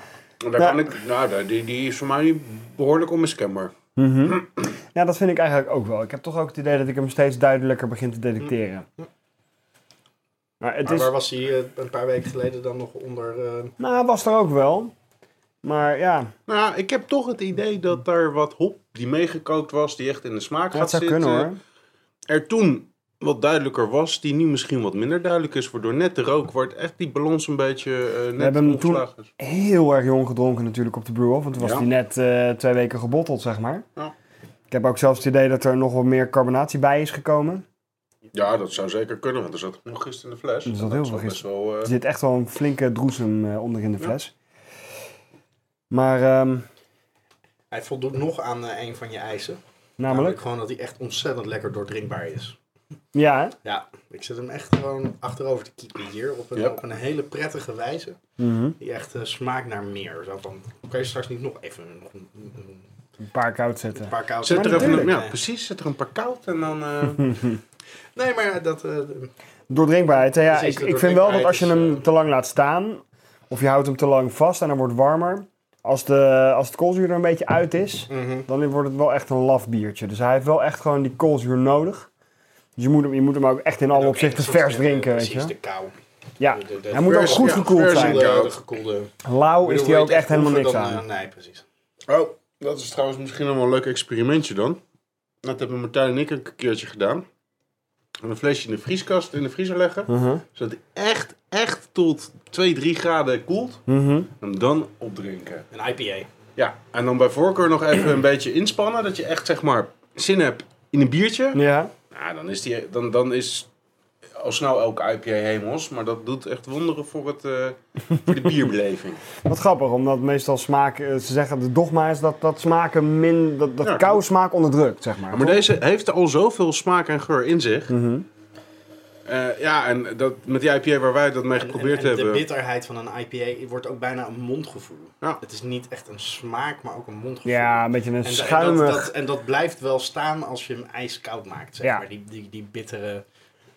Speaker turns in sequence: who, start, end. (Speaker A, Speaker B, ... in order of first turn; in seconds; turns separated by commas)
Speaker A: 0.4-3.7, Speaker B: 4.0-8.8, Speaker B: 10.6-11.1, Speaker C: 10.8-13.7, Speaker B: 13.8-14.9, Speaker B: 15.6-16.3, Speaker A: 16.5-21.5, Speaker B: 20.7-21.6, Speaker A: 22.3-29.3, Speaker B: 28.4-33.8, Speaker A: 31.6-31.9, Speaker B: 34.7-37.6, Speaker A: 38.3-41.9, Speaker B: 40.6-44.3, Speaker B: 45.9-46.6, Speaker C: 47.7-52.5, Speaker B: 50.0-50.4, Speaker B: 53.1-53.5, Speaker C: 53.6-58.2, Speaker B: 58.4-58.7, Speaker C: 58.8-62.8, Speaker B: 63.3-65.1, Speaker C: 64.0-65.4, Speaker A: 64.4-67.4, Speaker B: 67.2-67.6, Speaker C: 68.2-69.3, Speaker B: 69.7-82.1, Speaker C: 70.5-72.0, Speaker C: 78.1-78.5, Speaker B: 82.8-85.5, Speaker C: 83.9-85.9, Speaker B: 86.4-88.3, Speaker C: 86.5-89.1, Speaker A: 87.0-88.5, Speaker B: 89.2-91.0, Speaker C: 89.6-91.6, Speaker A: 92.1-94.8, Speaker A: 95.4-97.2, Speaker A: 98.2-103.8, Speaker B: 100.1-100.4, Speaker B: 103.9-104.3, Speaker A: 104.4-105.7, Speaker C: 105.7-106.3, Speaker A: 106.6-113.7, Speaker B: 111.5-111.9, Speaker A: 114.4-119.2, Speaker B: 119.4-125.6, Speaker A: 123.8-124.2, Speaker A: 125.3-127.9, Speaker B: 127.9-128.2, Speaker A: 129.2-132.4, Speaker C: 131.6-143.2, Speaker B: 137.4-139.1